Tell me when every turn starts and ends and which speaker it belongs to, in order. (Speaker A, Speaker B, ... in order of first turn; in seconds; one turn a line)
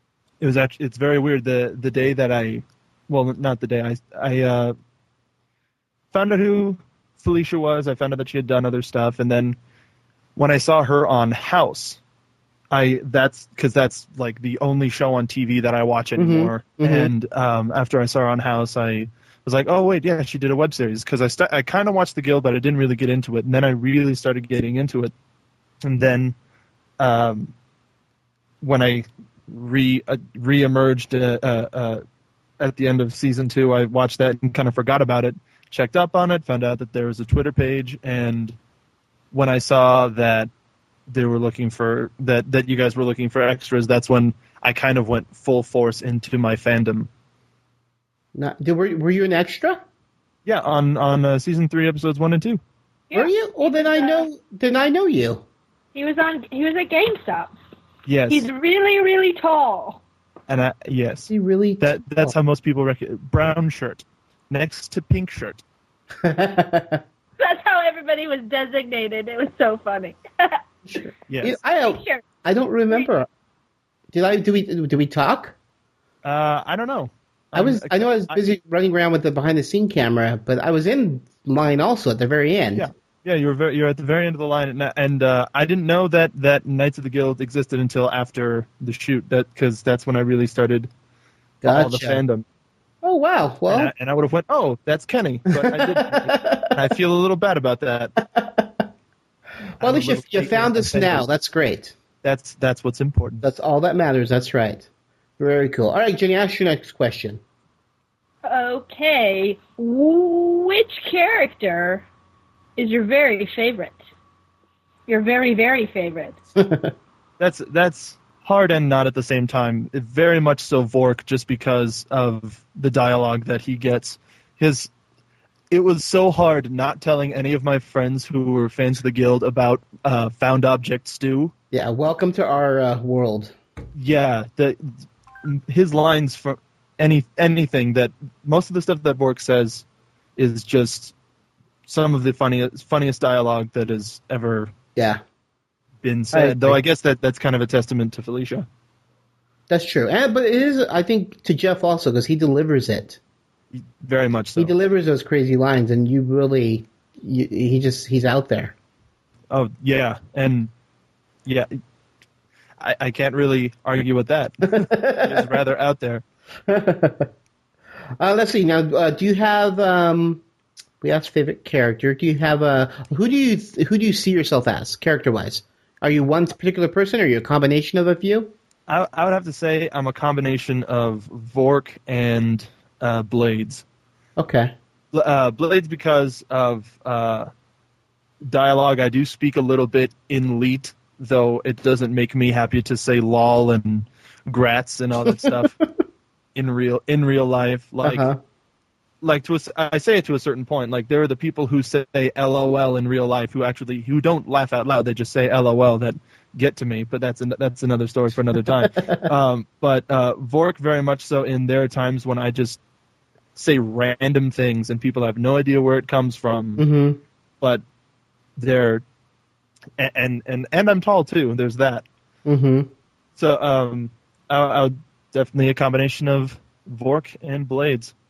Speaker A: 0.4-4.7
Speaker A: 6.1-9.6
Speaker A: 10.3-12.0
Speaker A: 12.7-25.1
Speaker B: 16.1-17.1
Speaker A: 25.8-26.3
Speaker A: 27.0-27.5
Speaker A: 28.6-32.0
Speaker A: 32.6-38.5
Speaker A: 39.3-40.5
Speaker A: 41.1-47.1
Speaker B: 48.3-49.8
Speaker A: 50.5-52.6
Speaker C: 53.1-54.2
Speaker B: 53.1-55.4
Speaker C: 55.9-57.5
Speaker A: 58.1-58.5
Speaker C: 58.3-60.0
Speaker A: 60.5-65.6
Speaker B: 61.3-62.3
Speaker B: 66.2-67.0
Speaker C: 67.4-70.6
Speaker B: 70.8-73.3
Speaker A: 71.3-71.6
Speaker C: 71.8-72.2
Speaker B: 74.1-75.5
Speaker A: 76.2-78.5
Speaker B: 77.5-82.9
Speaker A: 82.8-90.9
Speaker B: 91.6-92.2
Speaker A: 91.7-92.4
Speaker B: 93.0-93.9
Speaker A: 93.7-98.1
Speaker B: 95.5-96.7
Speaker B: 98.2-98.8
Speaker A: 99.8-101.2
Speaker B: 99.8-101.9
Speaker A: 102.2-103.4
Speaker B: 103.4-104.9
Speaker B: 105.4-107.4
Speaker C: 108.4-112.0
Speaker C: 112.8-114.0
Speaker C: 115.1-116.4
Speaker B: 116.6-116.9
Speaker A: 117.4-124.9
Speaker A: 125.7-131.5
Speaker B: 131.7-133.5
Speaker A: 133.9-134.9
Speaker A: 135.4-139.8
Speaker A: 140.4-141.1
Speaker A: 141.9-144.7
Speaker B: 144.9-145.2
Speaker A: 146.0-148.7
Speaker B: 146.3-146.8
Speaker B: 149.7-153.2
Speaker A: 153.7-154.7
Speaker B: 154.6-158.7
Speaker A: 159.5-160.7
Speaker A: 162.8-166.2
Speaker B: 164.8-165.5
Speaker B: 166.7-167.3
Speaker B: 168.2-170.4
Speaker B: 171.0-178.5
Speaker A: 178.9-183.8
Speaker B: 184.4-184.7
Speaker A: 185.1-187.5
Speaker A: 188.4-195.7
Speaker B: 195.2-195.7
Speaker A: 196.5-198.3
Speaker B: 198.0-198.4
Speaker A: 199.2-212.8
Speaker B: 208.8-209.2
Speaker A: 213.6-216.8
Speaker B: 216.8-217.2
Speaker A: 218.6-219.0
Speaker A: 220.0-222.0
Speaker B: 222.4-222.9
Speaker A: 223.3-228.1